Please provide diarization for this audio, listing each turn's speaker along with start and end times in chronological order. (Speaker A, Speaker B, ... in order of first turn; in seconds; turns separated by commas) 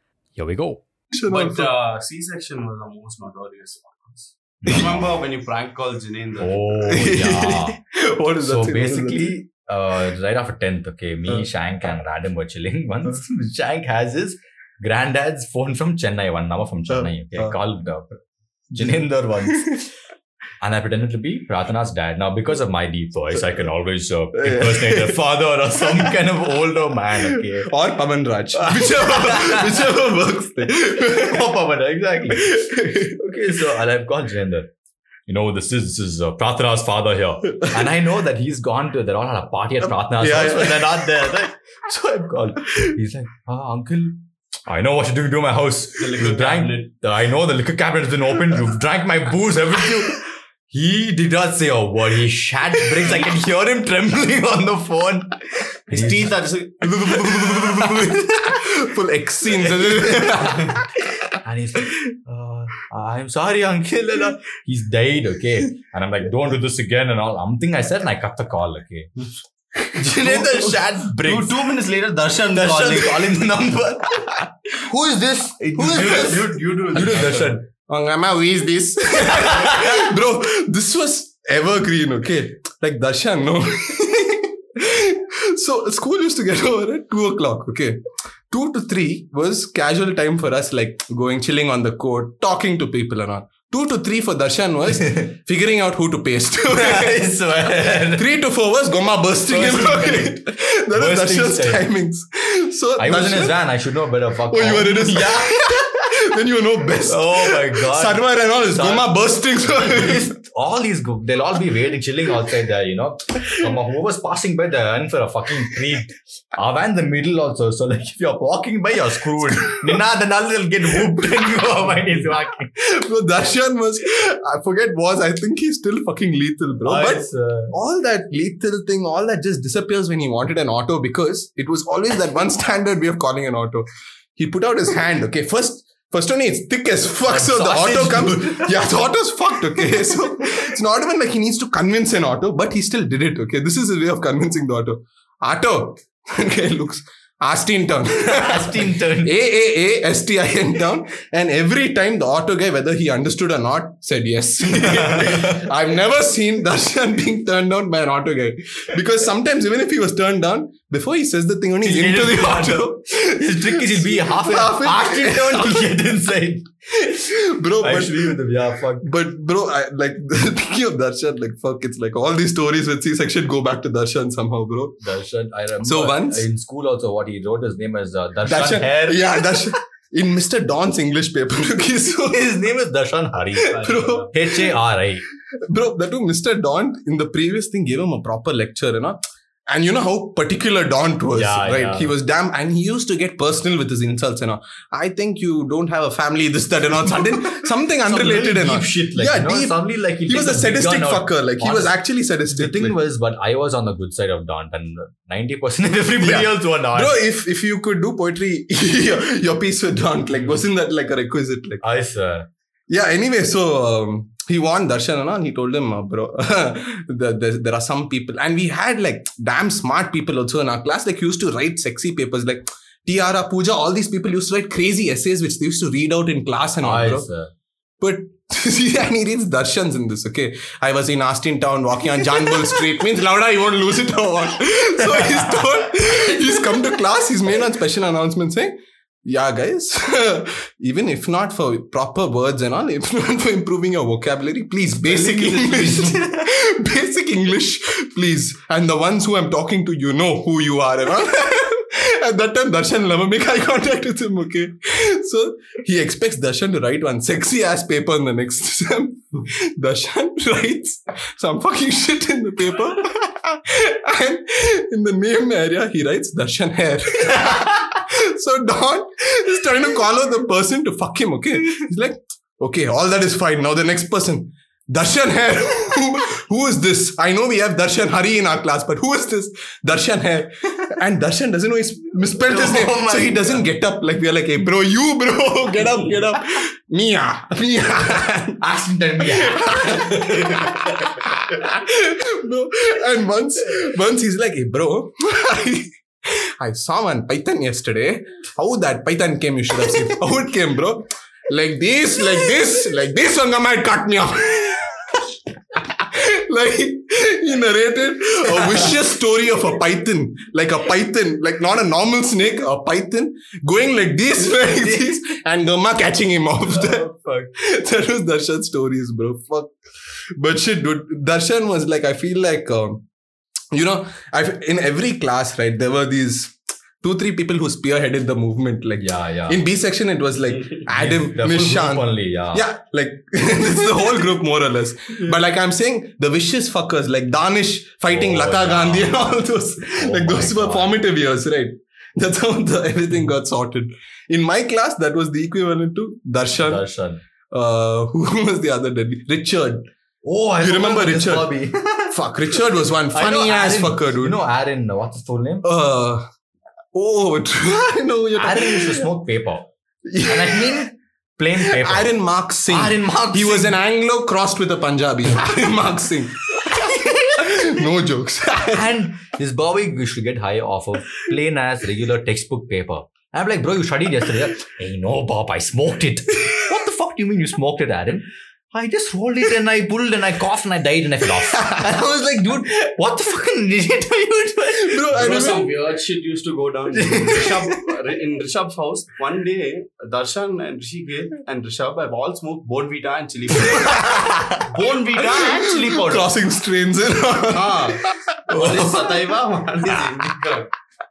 Speaker A: 0.4-0.8, Speaker B: 1.1-1.7, Speaker C: 1.3-6.6, Speaker A: 4.6-5.1, Speaker A: 6.4-7.8, Speaker B: 6.8-9.4, Speaker A: 8.4-18.2, Speaker B: 16.9-17.6, Speaker B: 18.8-19.7, Speaker A: 18.8-19.9, Speaker A: 20.6-27.7, Speaker B: 24.4-25.2, Speaker B: 25.8-26.1, Speaker B: 27.3-31.4, Speaker A: 28.6-29.9, Speaker A: 30.8-32.5, Speaker B: 32.3-33.1, Speaker A: 33.1-34.7, Speaker A: 35.3-56.3, Speaker B: 40.1-41.1, Speaker C: 46.0-46.9, Speaker C: 55.9-58.1, Speaker B: 56.8-60.9, Speaker A: 57.5-58.2, Speaker A: 59.6-60.6, Speaker A: 61.4-69.1, Speaker A: 70.0-71.6, Speaker B: 70.0-70.6, Speaker C: 70.3-73.5, Speaker A: 72.5-77.6, Speaker C: 75.6-77.5, Speaker B: 75.8-76.4, Speaker B: 76.9-88.0, Speaker A: 79.4-79.8, Speaker B: 88.5-97.3, Speaker A: 96.7-98.3, Speaker B: 98.2-103.6, Speaker A: 99.5-100.4, Speaker A: 100.9-101.9, Speaker A: 103.0-105.6, Speaker B: 104.5-110.3, Speaker A: 107.1-122.7, Speaker B: 119.6-119.9, Speaker B: 122.8-166.1, Speaker A: 126.8-127.7, Speaker A: 137.3-138.8, Speaker A: 148.3-149.4, Speaker A: 161.8-166.7, Speaker B: 167.0-168.4, Speaker A: 167.8-169.0, Speaker B: 169.0-175.0, Speaker A: 175.0-179.5, Speaker B: 175.8-176.4, Speaker B: 178.4-182.4, Speaker A: 182.3-185.2, Speaker B: 183.6-184.7, Speaker C: 183.7-184.3, Speaker B: 185.7-203.0, Speaker A: 191.3-192.1, Speaker A: 198.1-207.2, Speaker B: 206.2-211.8, Speaker A: 210.3-210.6, Speaker A: 211.8-212.5, Speaker B: 212.9-227.3, Speaker A: 226.8-227.5, Speaker B: 228.0-238.7, Speaker A: 235.1-235.6, Speaker B: 239.2-288.6, Speaker A: 245.0-246.3, Speaker A: 282.4-283.6, Speaker A: 288.6-291.1, Speaker B: 289.2-295.9, Speaker B: 296.6-305.2, Speaker B: 305.7-317.1, Speaker A: 314.5-315.2, Speaker A: 316.7-317.5, Speaker B: 317.6-319.8, Speaker B: 320.4-323.0, Speaker B: 323.7-346.9, Speaker A: 329.0-329.6, Speaker A: 330.9-332.6, Speaker A: 338.1-339.4, Speaker A: 340.0-341.0, Speaker A: 346.6-347.2, Speaker B: 347.5-349.9, Speaker A: 350.2-352.2, Speaker B: 350.6-351.5, Speaker B: 352.1-354.4, Speaker A: 353.1-355.7, Speaker B: 355.6-356.2, Speaker B: 356.9-359.1, Speaker A: 358.4-359.7, Speaker B: 360.1-360.8, Speaker A: 360.3-362.1, Speaker B: 361.6-366.4, Speaker A: 362.7-363.8, Speaker B: 367.3-368.9, Speaker A: 368.7-385.6, Speaker B: 384.7-385.7, Speaker C: 385.1-396.3, Speaker A: 386.9-387.9, Speaker B: 394.0-394.3, Speaker B: 395.2-398.2, Speaker C: 397.5-400.7, Speaker A: 398.5-399.0